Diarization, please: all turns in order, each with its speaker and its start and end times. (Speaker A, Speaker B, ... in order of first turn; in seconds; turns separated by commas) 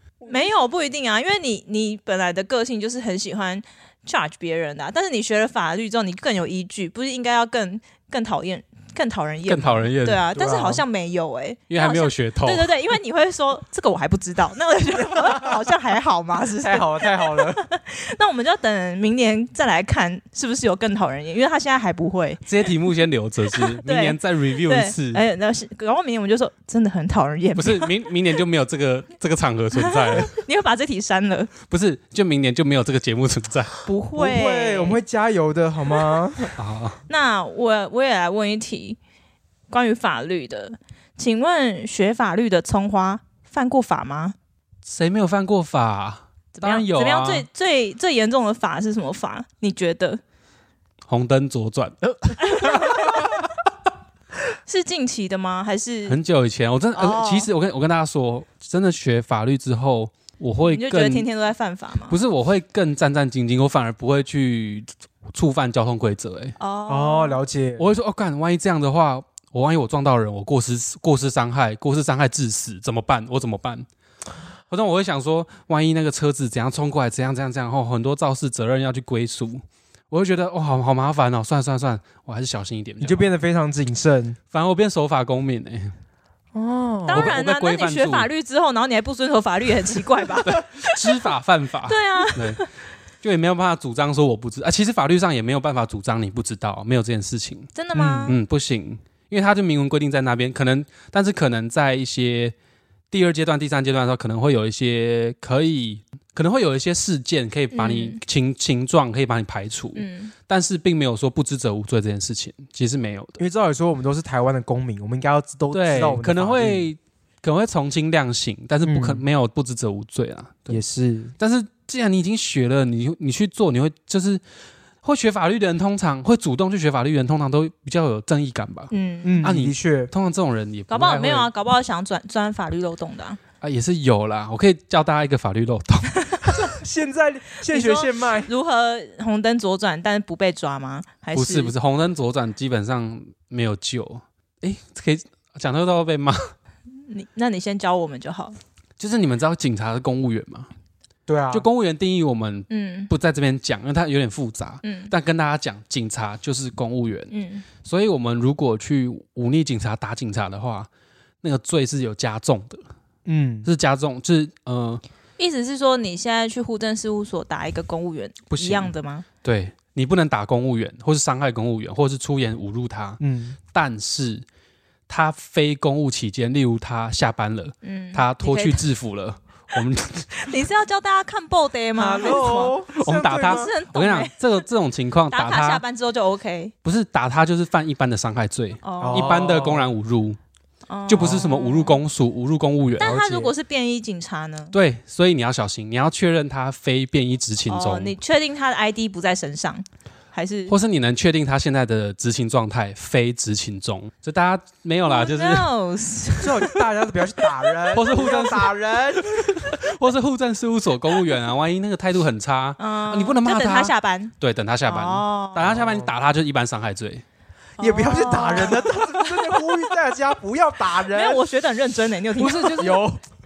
Speaker A: 0.2-22.4, Speaker B: 9.5-10.3, Speaker C: 10.3-10.8, Speaker B: 11.7-12.7, Speaker C: 16.6-17.6, Speaker B: 22.4-25.2, Speaker A: 23.6-27.9, Speaker B: 27.6-30.3, Speaker A: 29.7-31.5, Speaker B: 31.7-33.8, Speaker A: 33.9-35.0, Speaker C: 34.1-36.5, Speaker B: 36.6-37.0, Speaker A: 37.1-39.0, Speaker A: 39.7-44.3, Speaker B: 44.8-47.5, Speaker A: 46.5-50.2, Speaker B: 51.0-52.8, Speaker A: 52.4-53.1, Speaker A: 54.6-56.2, Speaker B: 56.1-61.3, Speaker A: 56.9-57.5, Speaker A: 60.6-62.2, Speaker B: 62.1-66.6, Speaker A: 66.6-67.4, Speaker C: 66.9-67.9, Speaker B: 67.8-73.9, Speaker B: 74.7-83.3, Speaker C: 83.0-84.4, Speaker B: 84.5-85.9, Speaker C: 86.5-87.4, Speaker A: 87.1-91.0, Speaker B: 87.1-88.3, Speaker B: 90.4-92.6, Speaker A: 91.9-92.7, Speaker B: 93.2-102.5, Speaker A: 97.7-98.4, Speaker C: 98.0-98.3, Speaker B: 103.1-113.4, Speaker A: 107.7-108.2, Speaker A: 109.9-110.3, Speaker C: 113.4-116.8, Speaker B: 115.7-120.8, Speaker C: 118.8-119.2, Speaker C: 120.7-121.3, Speaker B: 121.4-124.4, Speaker B: 125.0-128.9, Speaker A: 128.9-129.5, Speaker C: 129.2-130.1, Speaker B: 129.4-131.4, Speaker A: 130.9-133.4, Speaker B: 133.6-136.2, Speaker A: 136.2-136.6, Speaker C: 136.6-138.5, Speaker A: 137.7-141.7, Speaker B: 141.3-146.5, Speaker A: 147.1-148.6, Speaker B: 149.0-150.7, Speaker C: 151.3-151.7, Speaker B: 151.5-160.9, Speaker A: 152.7-153.1, Speaker A: 154.8-155.1, Speaker A: 157.3-157.7, Speaker B: 161.4-162.8, Speaker C: 163.2-163.7, Speaker B: 163.6-165.0, Speaker A: 165.4-169.2, Speaker B: 168.5-168.9, Speaker B: 169.4-173.2, Speaker C: 173.2-173.6, Speaker B: 173.7-174.4, Speaker B: 175.1-180.4, Speaker A: 177.8-178.8, Speaker A: 180.3-182.8, Speaker C: 182.0-183.7, Speaker B: 182.3-185.8, Speaker A: 183.4-184.6, Speaker A: 185.3-186.7, Speaker B: 186.8-190.4, Speaker A: 188.8-189.4, Speaker C: 189.0-189.9, Speaker A: 190.9-192.0, Speaker B: 191.1-193.3, Speaker A: 193.0-194.7, Speaker C: 193.0-193.5, Speaker B: 194.7-198.1, Speaker A: 197.7-200.7, Speaker B: 200.7-205.7, Speaker A: 205.0-206.8, Speaker C: 206.4-209.7, Speaker B: 207.9-217.2, Speaker A: 212.8-214.3, Speaker A: 214.8-215.6, Speaker C: 215.6-216.1, Speaker A: 217.8-219.6, Speaker C: 217.8-221.4, Speaker A: 221.1-222.9, Speaker B: 222.4-223.0, Speaker C: 222.6-223.2